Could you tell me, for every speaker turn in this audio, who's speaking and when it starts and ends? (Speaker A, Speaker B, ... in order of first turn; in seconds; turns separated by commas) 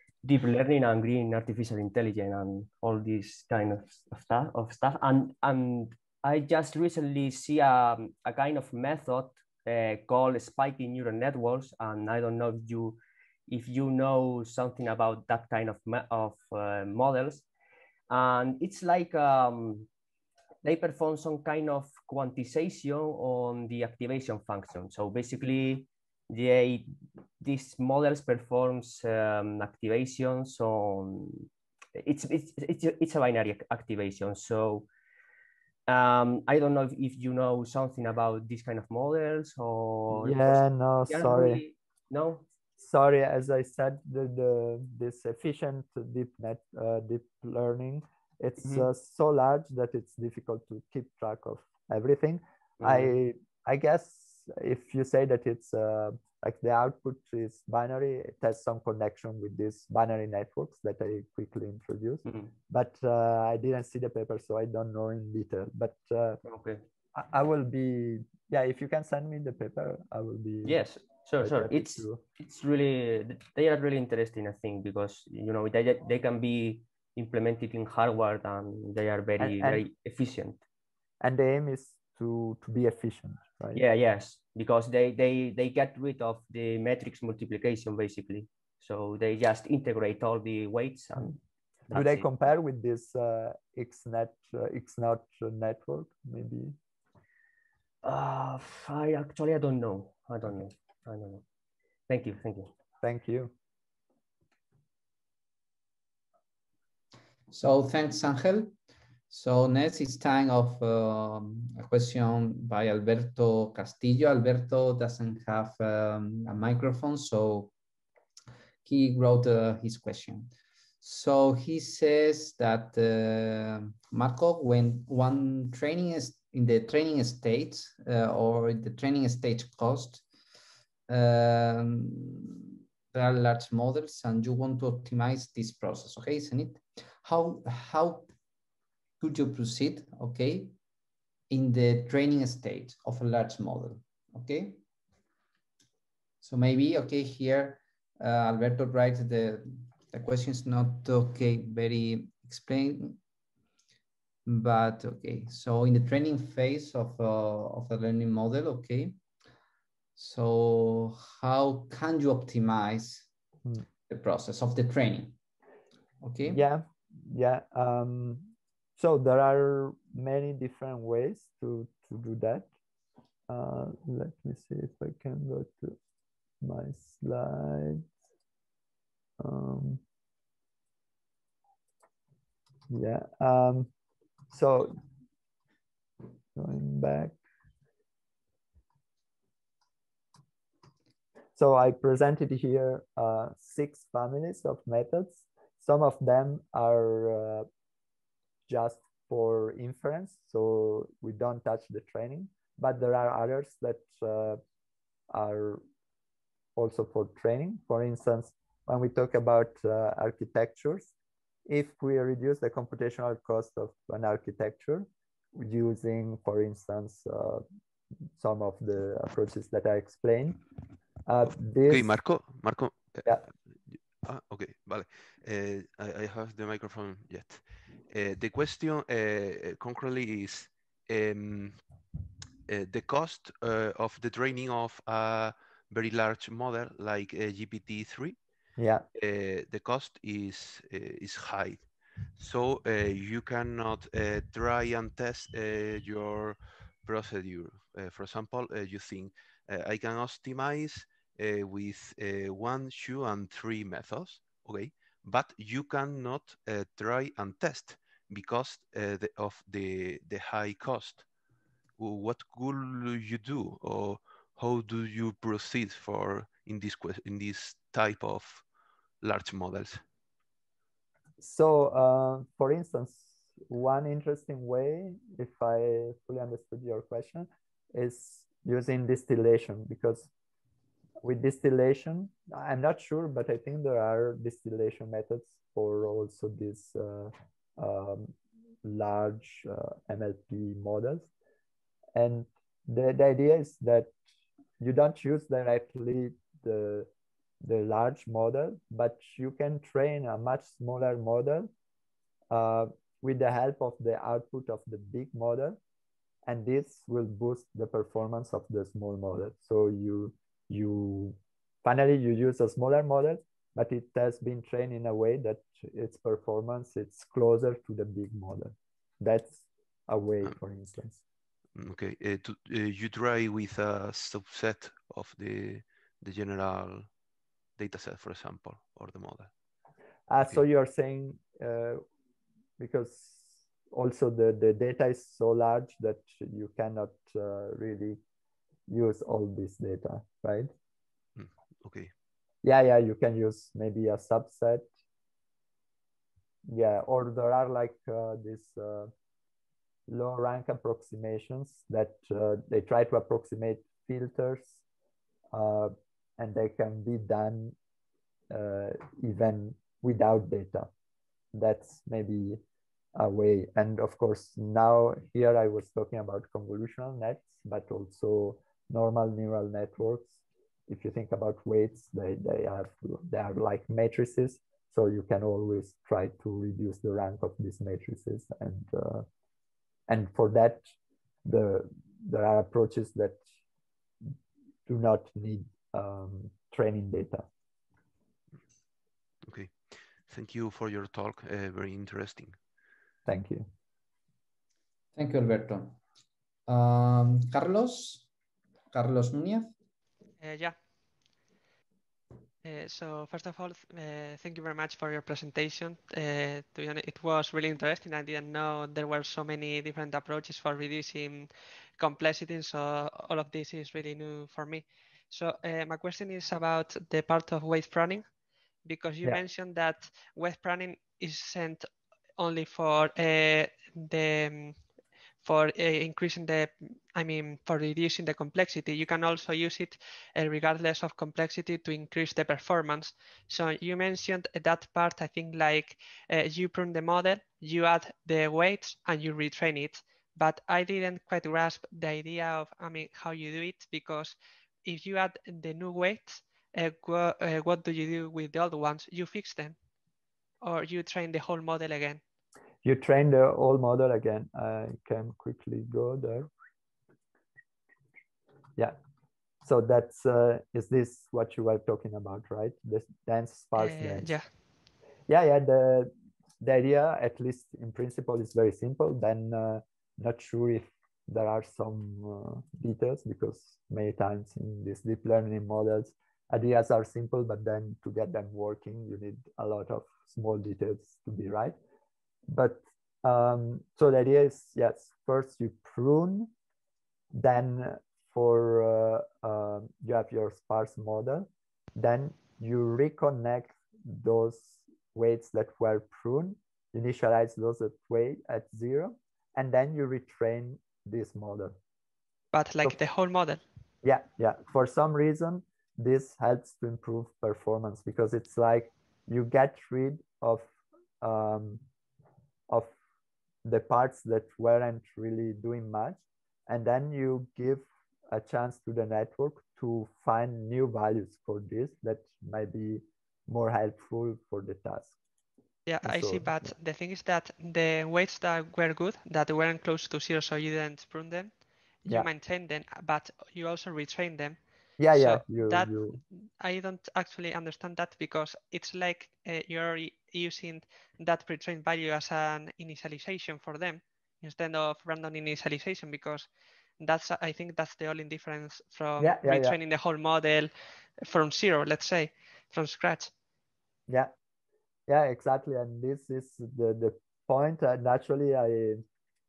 Speaker A: 0.2-17.5, Speaker A: 18.1-19.9, Speaker A: 20.6-34.9, Speaker A: 35.9-42.4, Speaker B: 40.1-41.6, Speaker B: 42.8-66.4, Speaker A: 48.6-48.9, Speaker A: 52.8-53.1, Speaker A: 66.4-66.8, Speaker B: 67.2-70.8, Speaker A: 70.7-80.6, Speaker B: 71.4-72.2, Speaker B: 79.4-79.8, Speaker B: 81.2-83.8, Speaker A: 83.7-91.4, Speaker A: 91.9-92.3, Speaker B: 91.9-96.8, Speaker A: 98.0-101.4, Speaker A: 102.1-102.7, Speaker B: 103.0-103.5, Speaker C: 107.5-108.7, Speaker C: 109.3-117.7, Speaker C: 118.8-120.5, Speaker C: 121.0-130.2, Speaker C: 131.1-138.3, Speaker C: 139.2-140.8, Speaker C: 141.5-144.8, Speaker C: 146.4-153.2, Speaker C: 154.5-159.2, Speaker C: 160.2-163.3, Speaker C: 164.1-165.4, Speaker C: 166.2-166.6, Speaker B: 166.4-172.7, Speaker B: 173.5-176.0, Speaker B: 176.6-178.1, Speaker B: 179.4-180.0, Speaker B: 182.9-183.9, Speaker B: 184.5-185.0, Speaker B: 186.6-187.4, Speaker B: 191.6-197.7, Speaker B: 198.7-204.6, Speaker B: 205.3-205.8, Speaker B: 206.8-211.1, Speaker B: 211.7-217.6, Speaker B: 218.4-220.6, Speaker B: 221.3-222.1, Speaker D: 221.9-231.8, Speaker D: 232.7-238.4, Speaker B: 238.8-239.1, Speaker D: 239.2-261.3, Speaker D: 262.0-268.6, Speaker D: 269.2-270.0, Speaker B: 271.4-280.3, Speaker B: 281.2-291.3, Speaker B: 292.1-294.1, Speaker B: 294.8-297.1, Speaker B: 297.6-301.7, Speaker B: 302.5-305.8, Speaker B: 306.5-321.2, Speaker D: 321.8-327.1, Speaker D: 327.8-329.5, Speaker B: 330.3-332.0, Speaker B: 332.8-338.2, Speaker B: 338.9-340.7, Speaker D: 341.4-342.1, Speaker B: 342.6-344.9, Speaker B: 346.7-349.1, Speaker B: 350.1-354.8, Speaker B: 355.5-357.8, Speaker B: 358.5-360.9, Speaker B: 361.5-362.6, Speaker B: 363.2-379.3, Speaker B: 380.1-380.9, Speaker B: 381.4-383.4, Speaker B: 384.9-387.5, Speaker D: 389.4-392.6, Speaker B: 393.3-393.7, Speaker C: 395.2-396.0, Speaker C: 396.7-398.3, Speaker C: 398.9-399.7, Speaker E: 400.4-400.8, Speaker E: 402.6-418.3, Speaker E: 418.9-424.8, Speaker E: 425.4-449.8, Speaker E: 450.6-452.2, Speaker B: 452.8-456.5, Speaker B: 459.6-464.3, Speaker E: 463.8-464.5, Speaker B: 465.3-481.8, Speaker B: 482.5-486.5, Speaker B: 487.3-501.8, Speaker E: 502.5-503.6, Speaker B: 504.0-510.7, Speaker B: 511.2-511.8, Speaker B: 513.6-525.2, Speaker E: 525.9-531.5, Speaker B: 526.0-526.7, Speaker E: 532.1-534.6, Speaker B: 535.0-536.2, Speaker E: 535.1-535.9, Speaker E: 536.6-546.5, Speaker E: 547.0-553.3, Speaker B: 549.2-549.8, Speaker B: 555.1-559.0